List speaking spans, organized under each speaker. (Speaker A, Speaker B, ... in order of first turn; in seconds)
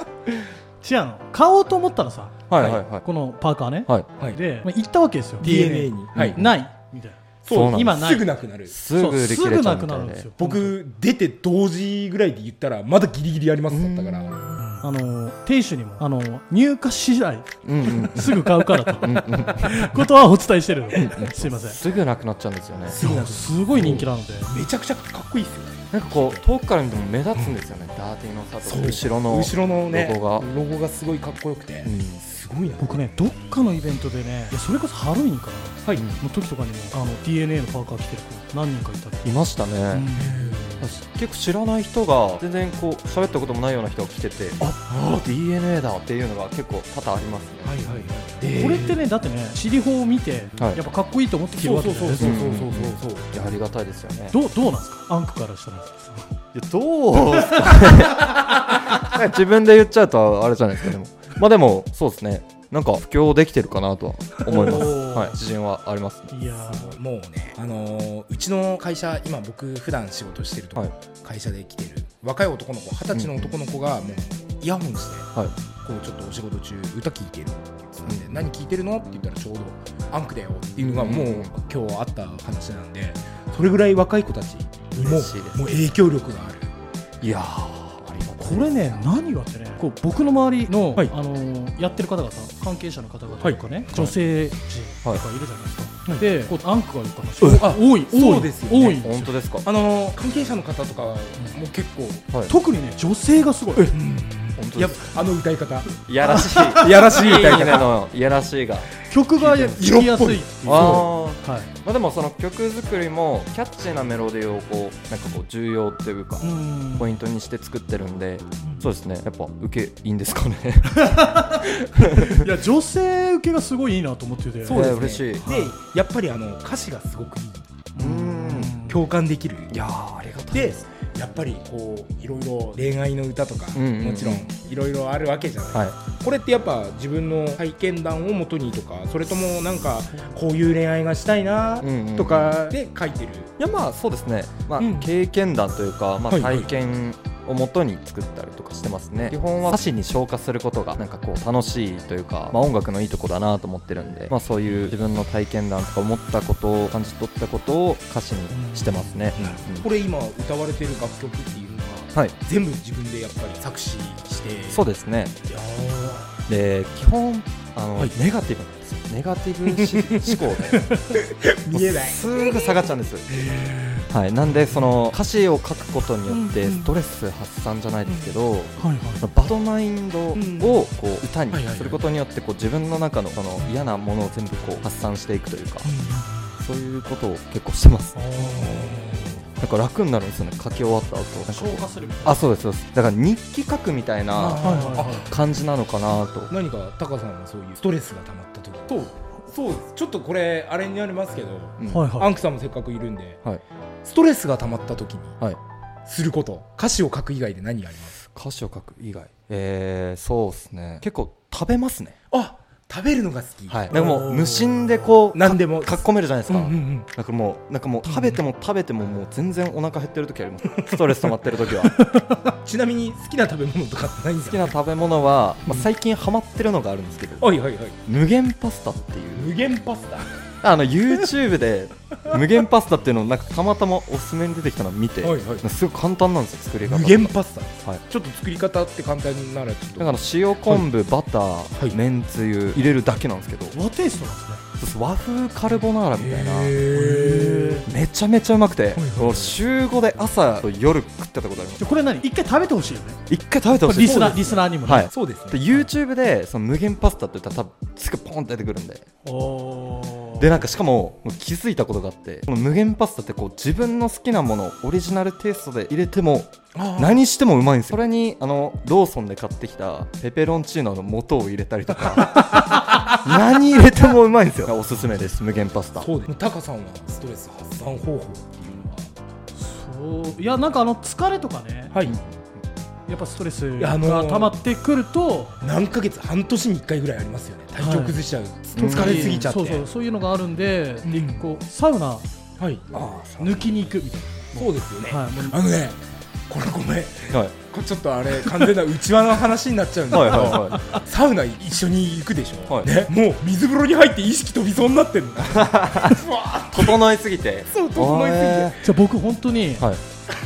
Speaker A: 0.8-8.3, 8.9-10.8, 14.8-21.8, 23.0-24.5, 32.8-39.4, 39.9-40.8, 48.4-52.4, 54.3-56.3, 64.5-65.4, 66.3-67.0, 88.4-99.3, 102.5-103.9, 106.5-106.9, 109.1-111.7, 116.4-117.1, 120.9-125.7, 128.0-129.0, 158.5-159.3, 178.8-179.2, 188.2-189.3, 191.5-192.4, 194.6-195.3, 201.9-202.3, 213.9-214.8, 243.7-244.6, 246.9-247.9, 251.8-253.2, 253.8-255.1, 259.2-260.5, 279.6-281.9, 283.1-285.6, 287.8-288.2, 288.8-292.3, 293.4-295.6, 308.8-309.9
Speaker B: 2.5-3.0, 6.2-6.5, 7.5-8.0, 8.7-10.3, 13.7-14.4, 17.6-18.5, 19.0-19.9, 20.9-23.0, 23.8-24.1, 25.9-30.5, 31.8-32.2, 36.0-36.2, 39.2-40.1, 40.8-47.8, 52.2-54.4, 56.5-66.3, 73.1-73.5, 80.8-81.5, 85.0-85.8, 87.2-89.0, 99.0-99.7, 104.6-105.0, 106.1-108.9, 110.7-121.3, 122.0-122.5, 124.7-125.5, 128.0-128.8, 129.7-130.8, 133.7-134.5, 141.8-142.8, 143.6-159.9, 164.7-165.3, 166.5-170.9, 171.7-173.3, 174.1-185.9, 186.6-188.2, 189.6-196.5, 208.3-212.2, 213.7-222.0, 224.5-227.5, 228.1-229.5, 230.6-237.3, 240.0-243.8, 244.8-246.8, 247.9-251.8, 253.3-259.1, 260.4-276.1, 288.8-289.5, 292.9-293.7, 300.1-300.8, 302.7-302.9, 305.5-308.8
Speaker C: 2.6-2.8, 5.4-6.4, 7.4-8.8, 10.4-14.7, 22.9-26.4, 28.6-33.0, 40.2-40.8, 44.9-45.3, 47.6-49.0, 51.6-53.3, 66.7-86.7, 93.4-94.1, 97.4-99.0, 99.6-102.3, 103.9-108.0, 109.4-111.1, 124.6-127.7, 128.8-129.8, 130.5-143.5, 144.8-145.1, 146.3-146.7, 159.4-164.8, 165.5-166.5, 169.7-170.4, 171.1-172.6, 173.3-175.0, 176.3-176.9, 180.3-180.8, 181.5-182.0, 185.8-186.6, 188.3-189.4, 194.3-195.3, 196.5-203.4, 204.0-205.4, 206.1-208.2, 212.3-214.5, 215.3-217.1, 218.1-218.4, 222.5-224.7, 227.4-228.0, 229.4-230.4, 235.2-235.7, 236.8-240.9, 246.2-247.9, 248.9-249.6, 254.0-255.9, 266.7-267.2, 276.0-279.1, 281.9-282.2, 283.8-284.6, 285.6-289.9, 291.1-291.4, 292.6-292.9, 294.6-307.0, 307.7-308.8